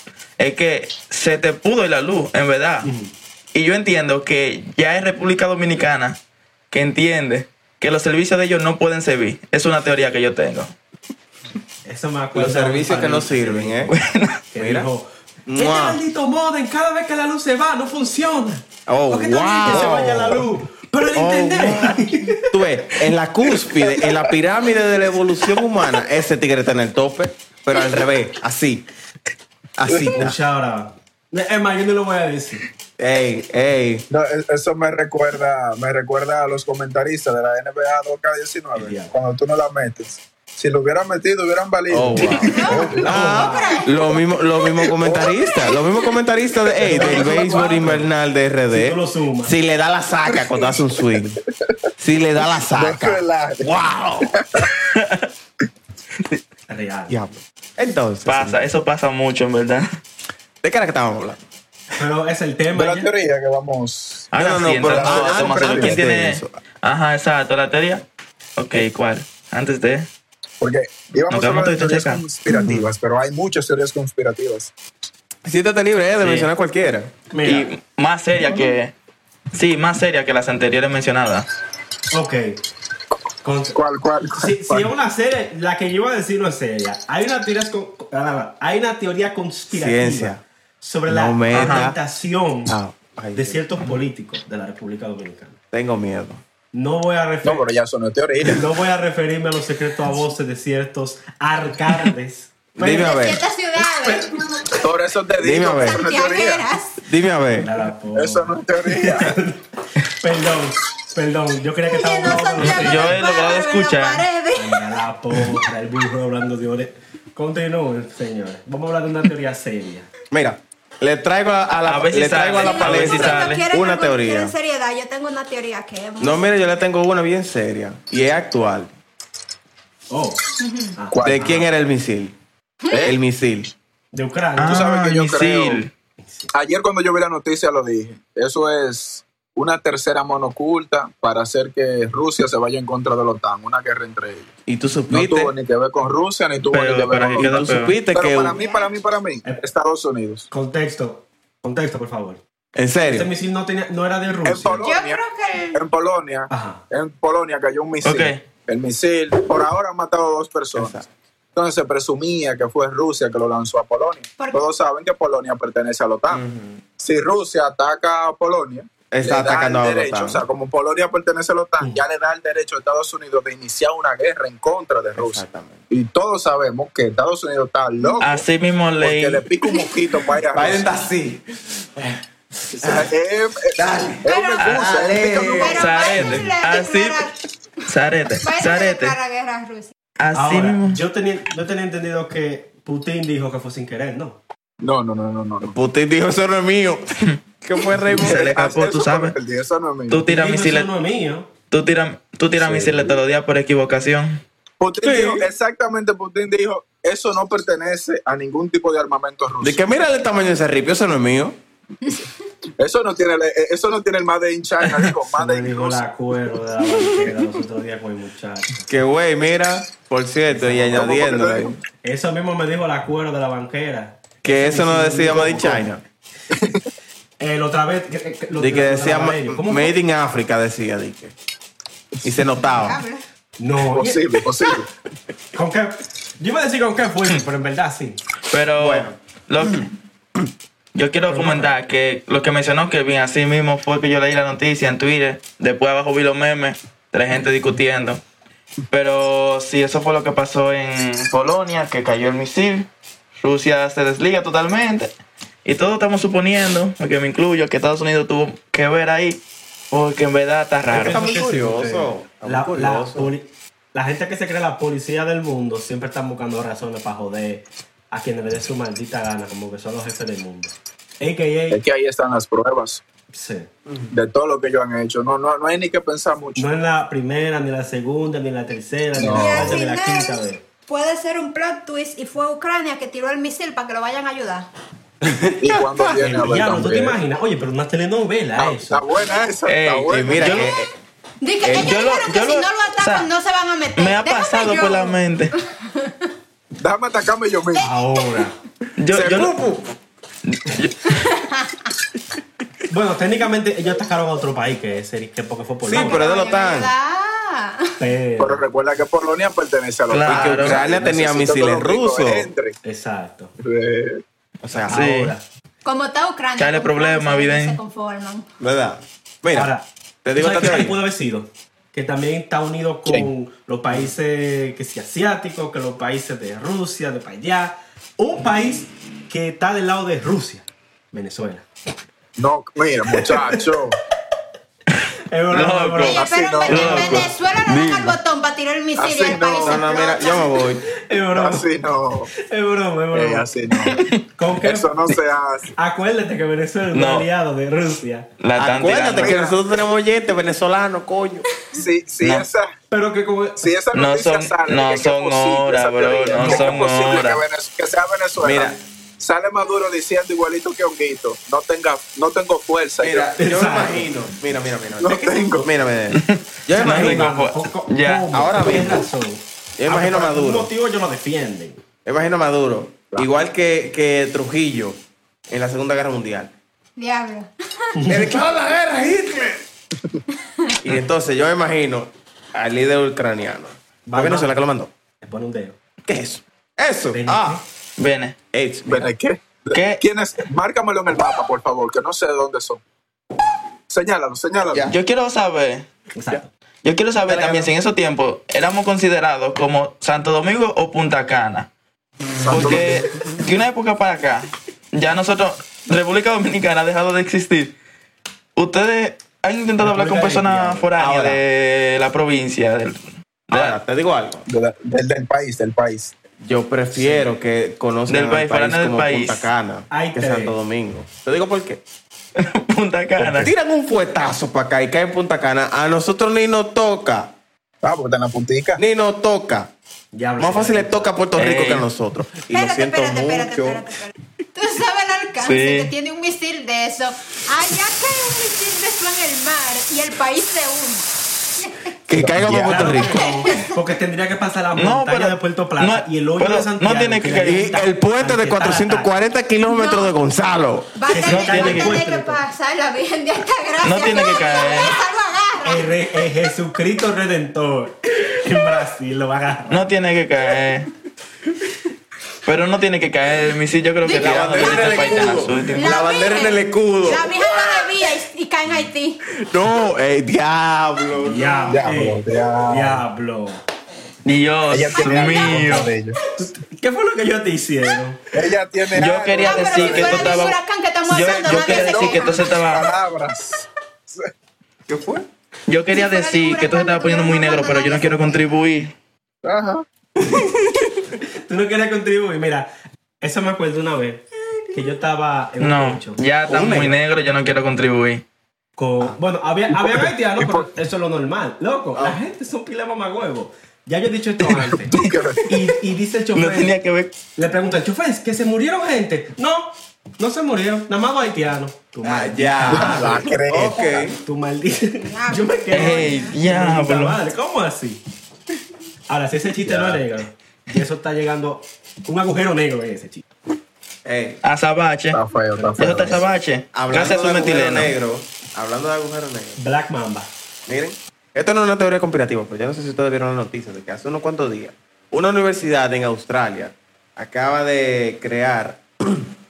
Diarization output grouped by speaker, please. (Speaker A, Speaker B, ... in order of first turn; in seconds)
Speaker A: 0.4-2.9, 3.5-6.2, 6.7-10.7, 13.9-14.4, 54.8-55.3, 58.2-59.9, 64.3-68.0, 68.6-70.1, 71.3-72.2, 77.4-78.9, 79.5-81.5, 91.5-91.9, 112.6-114.2, 121.8-123.7, 134.6-135.9, 146.7-147.9, 158.0-158.4, 178.2-179.4, 184.6-184.9, 185.6-187.3, 187.9-189.2, 190.2-191.0, 198.1-199.3, 200.1-200.9, 201.7-204.4, 238.5-239.9, 240.9-248.2, 248.9-252.9, 253.4-255.1, 255.7-261.3, 289.7-290.8, 291.8-293.3, 293.9-295.5, 299.0-299.5, 300.4-301.2, 310.1-310.8, 314.9-315.3, 316.6-317.8, 335.5-338.2, 343.9-344.2, 346.9-347.3, 348.4-349.4, 353.9-357.4, 366.1-368.3, 388.0-388.4, 389.7-390.0, 394.8-395.9, 396.8-401.7, 402.4-407.7, 408.6-413.8, 418.1-419.5, 422.4-423.5, 431.4-431.9, 435.4-435.9, 444.8-447.6, 451.2-452.0, 453.8-455.0, 459.7-460.9, 462.4-465.9, 474.2-475.9, 478.9-482.9, 485.7-488.9, 495.6-498.2, 506.3-507.1, 515.7-517.2, 524.4-525.2, 525.8-527.9
Speaker B: 2.8-3.1, 11.8-13.9, 14.5-22.6, 30.1-32.6, 38.8-39.1, 42.7-43.8, 46.9-48.1, 48.7-49.5, 56.7-57.1, 62.0-63.1, 76.2-76.5, 77.3-77.7, 82.1-82.6, 83.4-92.8, 93.3-95.6, 96.7-97.7, 98.5-103.2, 104.0-104.3, 107.5-113.2, 114.5-120.1, 130.1-131.7, 134.1-134.9, 136.2-136.5, 150.5-152.4, 153.0-154.8, 156.5-156.8, 190.3-194.4, 200.3-201.5, 202.7-202.9, 215.3-218.8, 220.5-221.0, 222.0-225.9, 227.4-229.9, 233.6-234.3, 235.5-238.2, 241.3-241.7, 260.9-271.8, 273.3-273.7, 276.6-280.6, 286.2-289.0, 297.8-298.6, 302.9-306.2, 308.0-308.6, 312.8-313.5, 314.9-315.4, 319.5-331.6, 335.3-336.2, 336.8-337.1, 341.1-341.7, 342.5-343.5, 344.4-344.9, 345.8-348.3, 352.9-353.7, 363.4-364.1, 366.8-371.8, 378.0-378.3, 384.1-384.6, 385.2-385.8, 387.1-387.6, 396.1-396.5, 409.8-410.9, 416.9-417.3, 419.9-420.5, 430.1-431.1, 442.4-449.1, 451.1-452.4, 455.6-459.9, 471.2-473.6, 475.3-475.8, 476.4-478.3, 491.5-492.7, 493.2-496.2, 498.8-504.9, 505.4-506.7, 507.4-513.2, 514.1-518.0, 519.1-523.2, 525.6-526.2, 529.6-530.3
Speaker C: 12.3-13.9, 14.6-14.9, 15.5-16.0, 18.9-20.4, 21.1-28.9, 29.8-30.4, 33.0-34.1, 41.9-51.4, 52.0-54.4, 57.1-58.6, 60.6-61.4, 64.3-66.6, 72.5-72.9, 75.4-77.1, 89.7-90.4, 91.1-92.0, 92.7-93.6, 95.7-96.4, 102.8-103.4, 105.4-106.0, 107.0-107.7, 120.3-124.5, 126.2-128.9, 131.2-132.3, 132.9-133.7, 144.7-145.5, 147.4-148.6, 152.8-153.3, 160.8-161.1, 166.3-166.8, 169.1-170.4, 175.2-175.8, 180.5-181.4, 182.0-183.1, 183.8-186.5, 195.6-197.1, 197.6-198.4, 205.0-205.4, 209.6-211.6, 218.9-221.8, 224.4-226.0, 228.6-231.3, 232.2-233.0, 238.8-239.8, 260.9-263.3, 285.2-286.1, 290.1-290.9, 291.6-291.9, 299.1-299.9, 305.8-306.9, 310.2-312.5, 314.6-315.0, 318.6-319.7, 320.2-321.0, 339.6-340.8, 348.6-351.5, 358.4-358.8, 363.0-367.3, 368.3-369.1, 369.8-370.7, 372.1-375.0, 375.5-376.5, 378.1-379.6, 380.8-384.9, 386.1-387.6, 388.5-389.1, 397.3-397.7, 402.3-403.5, 410.9-411.4, 413.5-414.4, 416.4-421.8, 423.4-427.3, 428.8-429.7, 430.4-433.9, 442.1-443.3, 447.4-450.9, 464.1-467.9, 469.3-471.8, 484.9-485.3, 496.5-496.9, 512.0-514.2, 519.6-520.0, 524.0-524.4, 526.7-529.6, 530.7-539.3
Speaker D: 29.9-30.2, 34.1-43.2, 45.0-45.4, 46.7-47.9, 50.3-50.9, 52.6-54.7, 62.7-66.0, 70.6-74.7, 78.4-78.7, 83.7-84.9, 97.4-98.6, 104.8-106.7, 108.1-109.4, 131.1-131.6, 134.7-135.8, 136.5-144.5, 145.1-150.5, 154.4-155.2, 155.7-160.9, 161.6-166.4, 167.0-178.4, 179.0-180.9, 182.8-185.9, 194.8-195.8, 198.2-200.2, 204.8-209.8, 212.8-216.0, 220.9-221.8, 226.5-226.9, 233.8-234.9, 271.7-273.0, 274.1-276.7, 279.1-279.8, 285.6-287.2, 288.6-290.7, 296.8-297.9, 308.4-312.8, 313.6-314.2, 332.4-334.0, 336.1-337.3, 339.0-340.1, 341.3-342.3, 343.1-344.0, 344.6-345.7, 349.1-349.6, 351.7-352.8, 353.6-363.3, 365.0-365.7, 388.9-392.8, 393.9-394.9, 402.4-403.1, 414.5-416.1, 423.2-423.5, 427.8-428.8, 442.1-442.8, 471.7-473.0, 474.7-476.2, 478.3-480.5, 481.4-484.3, 489.4-489.9, 499.8-500.7, 504.4-505.6, 512.6-513.8, 525.1-526.3
Speaker E: 42.5-44.2, 45.4-46.1, 102.9-104.5, 105.6-107.0, 111.9-114.9, 122.6-126.5, 130.6-130.9, 132.8-133.2, 148.5-148.9, 154.8-155.8, 184.3-184.7, 185.4-187.3, 188.4-189.9, 232.7-233.2, 279.3-284.7, 291.4-296.3, 301.1-301.8, 305.9-308.0, 315.8-318.5, 336.1-340.5, 377.0-378.0, 432.5-441.1, 442.9-443.8, 449.7-450.1, 450.9-456.4, 464.0-469.2, 475.0-476.4, 479.4-482.5, 485.9-488.4, 515.0-516.4